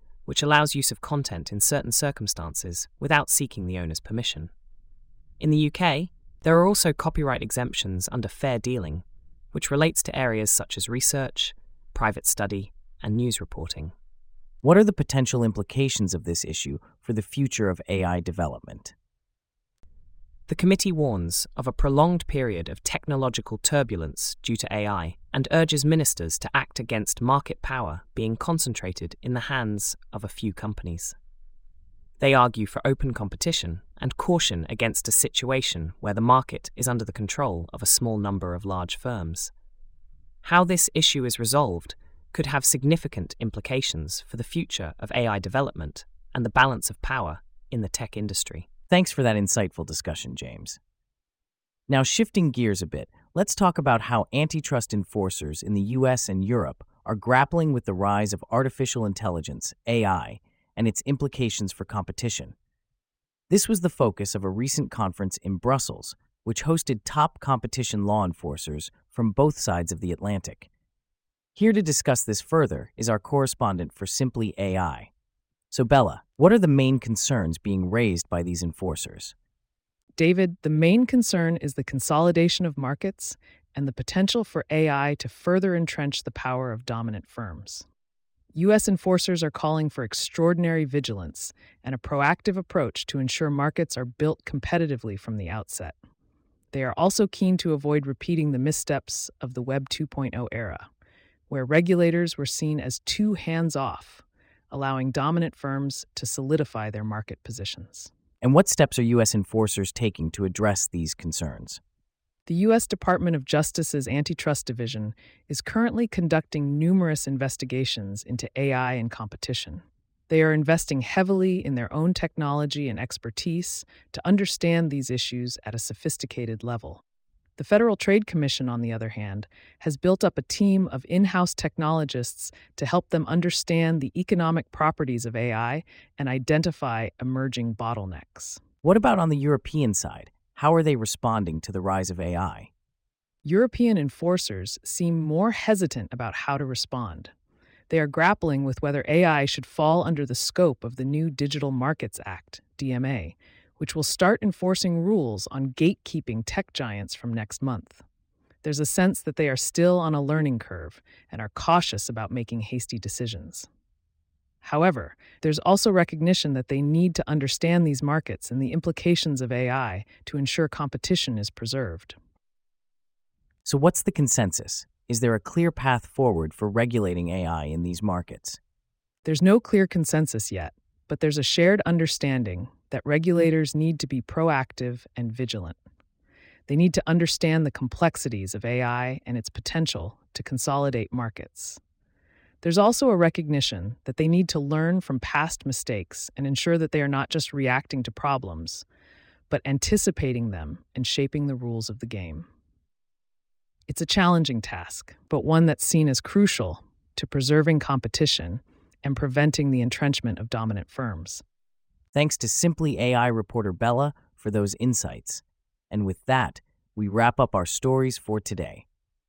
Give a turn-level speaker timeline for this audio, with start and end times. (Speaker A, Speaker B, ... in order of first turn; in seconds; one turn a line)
Speaker A: 0.3-4.5
Speaker A: 5.4-13.9
Speaker B: 14.6-18.9
Speaker A: 20.5-31.2
Speaker A: 32.2-39.5
Speaker A: 40.4-48.7
Speaker B: 48.9-50.8
Speaker B: 51.9-62.5
Speaker B: 63.5-70.7
Speaker B: 71.6-75.1
Speaker B: 75.7-79.3
Speaker C: 80.2-87.9
Speaker C: 88.5-96.0
Speaker C: 96.7-100.9
Speaker C: 101.5-108.1
Speaker B: 108.4-111.8
Speaker C: 112.5-127.0
Speaker C: 127.6-138.6
Speaker B: 138.8-142.7
Speaker C: 143.4-147.3
Speaker C: 147.9-158.0
Speaker C: 158.6-163.7
Speaker C: 164.6-172.2
Speaker B: 173.7-178.6
Speaker C: 179.2-185.8
Speaker C: 186.7-191.8
Speaker C: 192.6-198.8
Speaker C: 199.5-202.5
Speaker C: 203.9-211.4
Speaker B: 212.1-218.8